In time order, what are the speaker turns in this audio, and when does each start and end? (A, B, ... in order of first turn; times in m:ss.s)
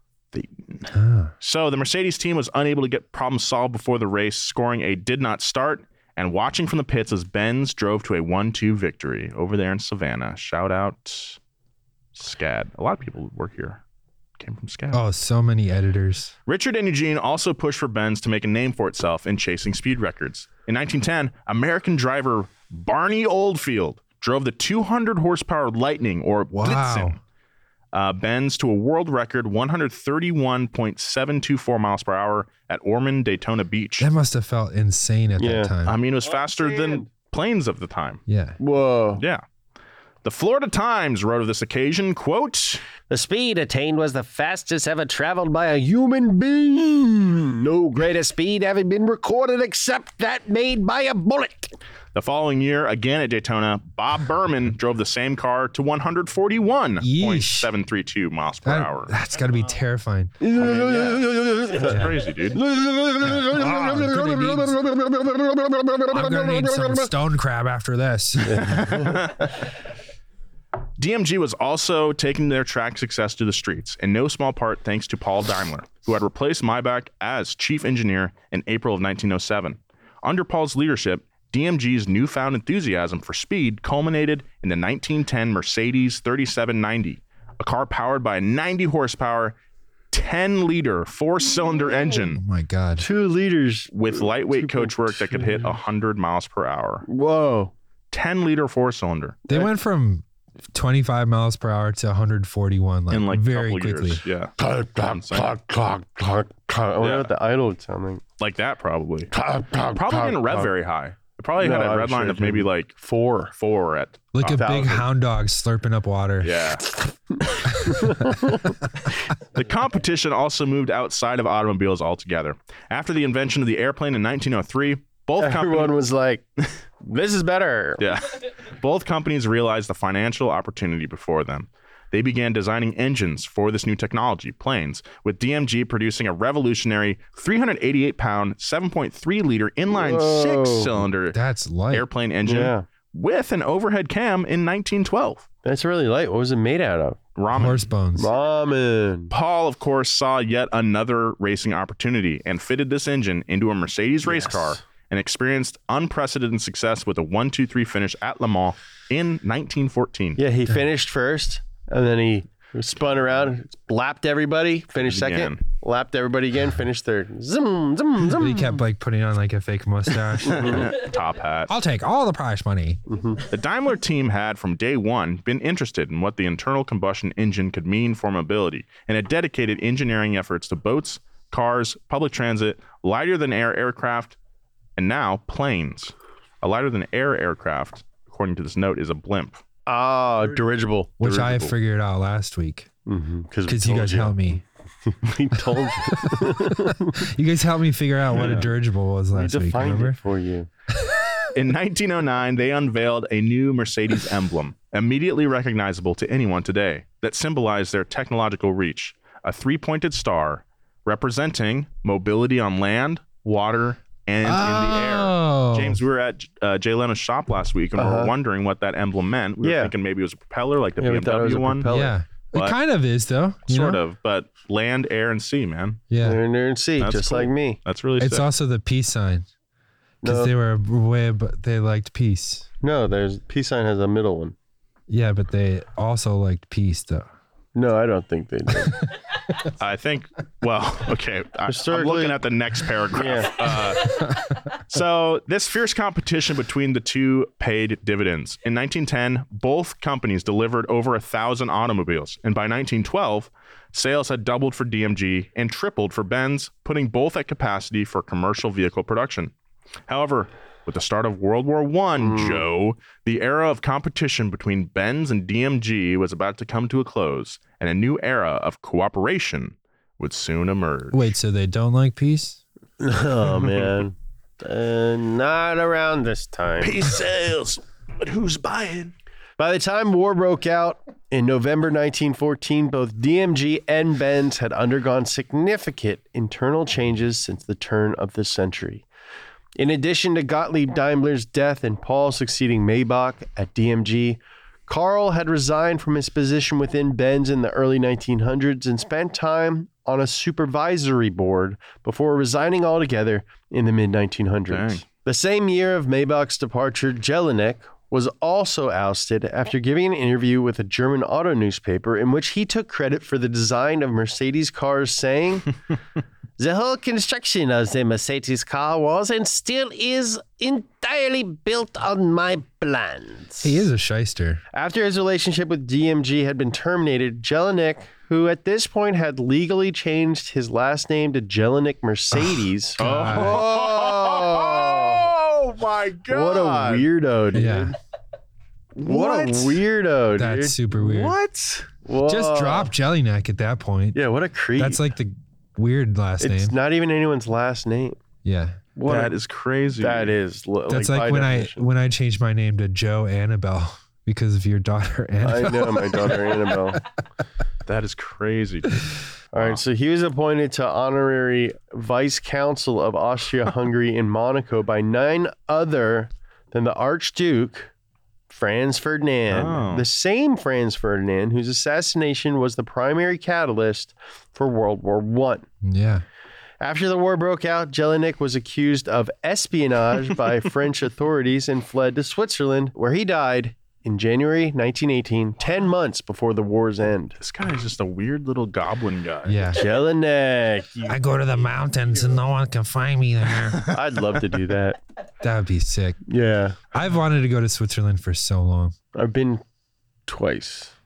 0:00.3-0:11.4 A
0:00.9-0:01.3 B
0:12.2-0:13.8 A
0:14.4-0:15.0 A
0:14.9-0:16.3 B
0:16.5-0:27.2 A
0:26.5-0:27.2 B
0:27.9-0:34.1 A
0:34.0-0:36.0 B
0:35.4-0:37.1 C
0:35.8-0:38.2 A
0:38.3-0:38.6 B
0:38.6-0:39.2 C
0:39.2-0:39.4 A
0:40.2-0:42.8 A
0:43.1-0:51.7 C
0:52.1-0:59.1 A
0:57.0-0:57.7 B
0:58.7-1:00.4 B
1:00.4-1:07.1 C
1:00.6-1:02.6 A
1:01.9-1:02.2 B
1:03.2-1:04.8 B
1:06.1-1:09.1 B
1:08.4-1:09.2 C
1:08.9-1:09.6 A
1:11.0-1:29.6 A
1:30.1-1:32.4 A
1:32.3-1:33.1 B
1:33.0-1:35.7 C
1:33.9-1:37.0 A
1:37.1-1:37.7 C
1:38.1-1:39.4 A
1:39.5-1:44.2 B
1:43.1-1:45.5 A
1:44.6-1:48.2 C
1:47.0-1:47.3 A
1:48.4-1:49.3 A
1:49.3-1:50.7 C
1:50.0-1:53.0 A
1:51.6-1:53.5 C
1:53.5-1:54.7 A
1:54.3-1:56.6 B
1:54.4-1:55.1 C
1:56.4-1:56.8 A
1:56.8-1:58.8 C
1:59.5-2:05.9 A
2:05.4-2:06.4 C
2:07.0-2:08.0 C
2:08.0-2:21.4 A
2:19.9-2:21.0 C
2:21.3-2:22.1 B
2:21.9-2:25.5 A
2:22.4-2:22.8 C
2:25.6-2:27.2 C
2:27.4-2:27.9 A
2:27.5-2:28.3 B
2:28.2-2:29.3 C
2:29.3-2:40.4 A
2:34.2-2:34.8 C
2:40.4-2:48.8 C
2:45.0-2:45.6 A
2:48.4-2:51.0 B
2:50.4-2:51.7 A
2:50.5-2:50.8 C
2:51.7-2:53.0 B
2:53.1-2:53.4 C
2:53.5-3:04.4 A
3:05.0-3:09.6 A
3:09.9-3:11.7 C
3:11.2-3:12.9 B
3:11.3-3:11.6 A
3:13.1-3:17.2 C
3:13.7-3:14.6 B
3:16.1-3:20.2 B
3:18.3-3:18.7 A
3:19.3-3:20.7 C
3:20.9-3:21.4 B
3:21.6-3:41.9 A
3:34.4-3:36.0 B
3:38.0-3:38.3 C
3:39.6-3:39.9 C
3:41.0-3:42.2 C
3:41.9-3:44.0 B
3:43.7-3:46.0 A
3:46.1-3:46.4 B
3:46.2-3:47.8 C
3:47.0-3:48.5 A
3:48.2-3:49.5 B
3:50.2-3:50.5 C
3:50.2-3:52.7 B
3:52.8-3:54.6 C
3:55.1-3:57.3 B
3:57.8-3:59.0 C
3:59.8-4:19.5 A
4:01.7-4:02.4 C
4:03.1-4:03.6 C
4:20.1-4:31.3 A
4:22.2-4:22.6 C
4:31.1-4:32.6 B
4:33.0-4:37.0 C
4:36.8-4:39.1 A
4:39.6-4:49.1 C
4:49.8-5:15.7 C
5:04.7-5:05.0 A
5:16.6-5:23.8 C
5:23.6-5:24.6 B
5:24.7-5:35.3 C
5:33.0-5:33.7 B
5:33.0-5:37.1 A
5:36.3-5:38.0 C
5:37.5-5:38.0 B
5:39.0-5:40.9 C
5:39.0-5:39.8 A
5:40.4-5:41.4 B
5:41.0-5:41.9 A
5:41.9-5:42.9 C
5:42.2-5:44.2 B
5:44.1-5:45.0 C
5:44.8-5:46.8 B
5:46.4-5:48.2 C
5:48.4-5:48.8 B
5:49.0-5:49.4 C
5:49.1-5:50.3 A
5:50.0-5:51.9 C
5:50.9-5:57.0 B
5:55.4-5:57.0 C
5:57.9-5:59.8 A
5:59.5-6:07.9 C
6:08.5-6:15.7 C
6:09.5-6:10.1 A
6:15.8-6:16.2 B
6:16.8-6:27.4 C
6:27.4-6:29.8 A
6:29.5-6:29.8 B
6:29.8-6:31.3 C
6:31.1-6:33.8 B
6:33.9-6:35.0 C
6:35.4-6:36.2 B
6:36.3-6:36.8 C
6:36.9-6:39.0 B
6:39.1-6:39.6 C
6:40.3-6:40.9 C